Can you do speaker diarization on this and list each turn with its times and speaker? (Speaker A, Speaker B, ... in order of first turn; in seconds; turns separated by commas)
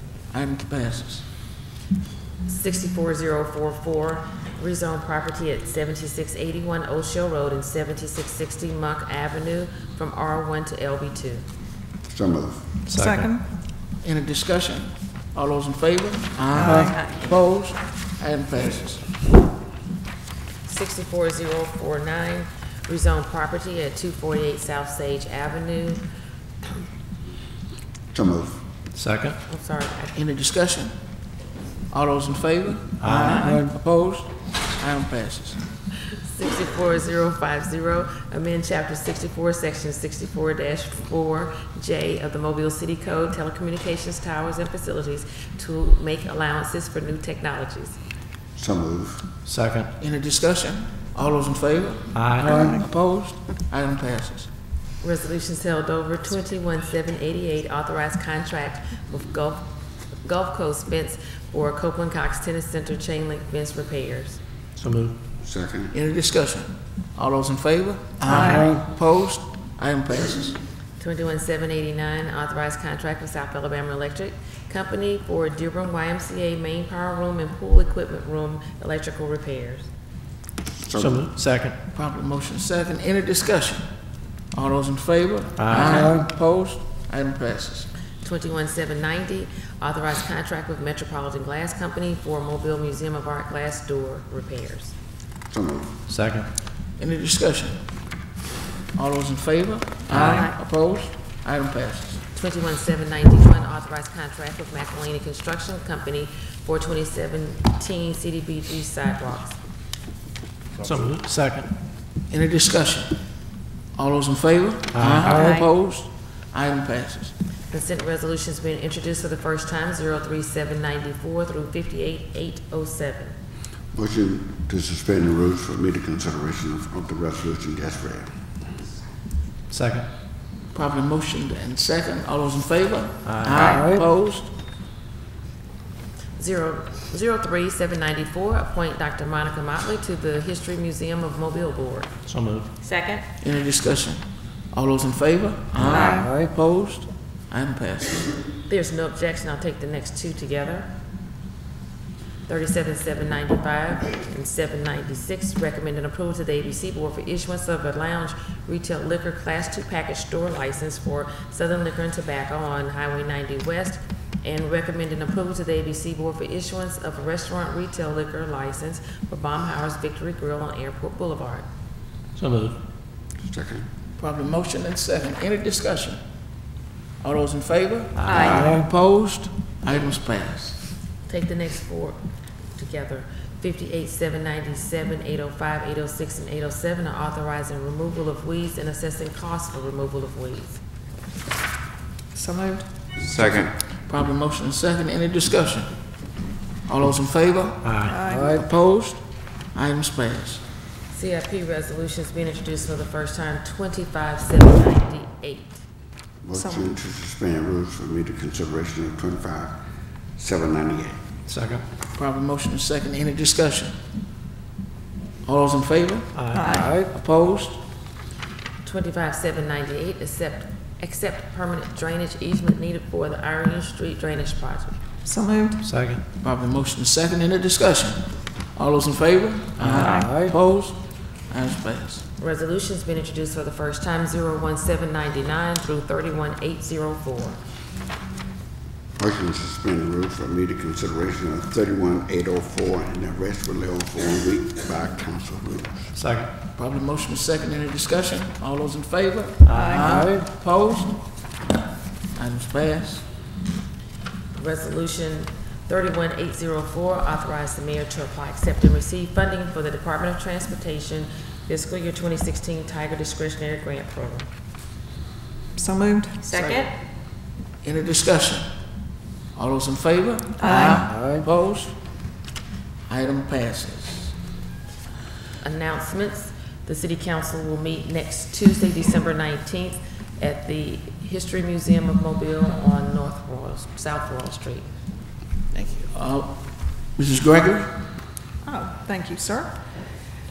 Speaker A: 0.3-1.2, Speaker B: 2.5-11.4, Speaker C: 12.1-12.6, Speaker D: 12.9-13.3, Speaker E: 12.9-13.4, Speaker A: 14.0-19.1, Speaker E: 16.6-17.0, Speaker B: 20.7-26.0, Speaker C: 28.1-28.6, Speaker D: 28.9-29.4, Speaker B: 29.5-30.1, Speaker A: 30.1-30.9, Speaker A: 31.9-35.6, Speaker D: 33.0-33.4, Speaker B: 36.2-48.0, Speaker C: 48.5-49.3, Speaker D: 49.5-49.9, Speaker A: 50.0-54.5, Speaker D: 52.1-52.5, Speaker B: 55.0-59.6, Speaker B: 60.2-64.4, Speaker D: 64.8-65.1, Speaker C: 65.4-65.9, Speaker A: 65.9-70.6, Speaker E: 68.3-68.7, Speaker B: 71.0-79.9, Speaker C: 80.8-81.3, Speaker D: 81.0-81.8, Speaker A: 81.9-83.9, Speaker A: 84.5-87.9, Speaker D: 85.6-86.1, Speaker B: 88.2-94.9, Speaker C: 95.5-95.9, Speaker D: 96.1-96.5, Speaker A: 97.0-97.8, Speaker A: 98.9-102.2, Speaker D: 100.1-100.5, Speaker B: 102.3-109.5, Speaker D: 110.8-111.7, Speaker A: 112.3-113.1, Speaker A: 114.0-117.3, Speaker D: 114.9-115.5, Speaker B: 117.7-123.3, Speaker C: 123.9-128.3, Speaker D: 129.7-130.1, Speaker A: 130.7-134.5, Speaker D: 133.2-133.8, Speaker B: 136.4-142.1, Speaker D: 142.3-142.7, Speaker E: 142.8-143.2, Speaker A: 143.4-148.3, Speaker E: 145.9-146.2, Speaker B: 148.7-150.9, Speaker B: 152.5-171.7, Speaker D: 172.4-172.8, Speaker C: 173.4-173.9, Speaker A: 174.2-176.2, Speaker A: 177.2-180.8, Speaker E: 178.3-178.7, Speaker C: 178.3-178.8, Speaker B: 181.3-182.2, Speaker B: 182.8-190.8, Speaker E: 192.3-192.9, Speaker C: 193.3-193.7, Speaker A: 193.4-195.9, Speaker A: 196.9-199.2, Speaker D: 197.8-198.2, Speaker E: 198.1-198.6, Speaker A: 199.7-200.6, Speaker B: 201.1-205.8, Speaker C: 206.4-209.8, Speaker E: 206.6-206.9, Speaker C: 210.4-211.2, Speaker D: 211.5-211.8, Speaker A: 212.2-214.0, Speaker A: 215.4-217.8, Speaker D: 216.3-216.8, Speaker E: 216.5-217.0, Speaker B: 218.8-225.0, Speaker E: 225.2-225.8, Speaker D: 225.8-226.2, Speaker A: 226.4-232.2, Speaker D: 229.8-230.3, Speaker B: 232.4-237.6, Speaker C: 239.2-246.1, Speaker D: 246.2-246.5, Speaker A: 246.8-251.2, Speaker D: 249.7-250.0, Speaker E: 249.7-250.2, Speaker A: 252.3-253.2, Speaker B: 254.6-264.5, Speaker E: 265.8-266.9, Speaker A: 266.6-266.8, Speaker A: 267.8-268.7, Speaker A: 269.6-272.0, Speaker E: 270.6-271.2, Speaker A: 273.1-274.3, Speaker B: 275.6-284.9, Speaker A: 285.7-286.6, Speaker A: 287.1-287.9, Speaker E: 288.6-289.7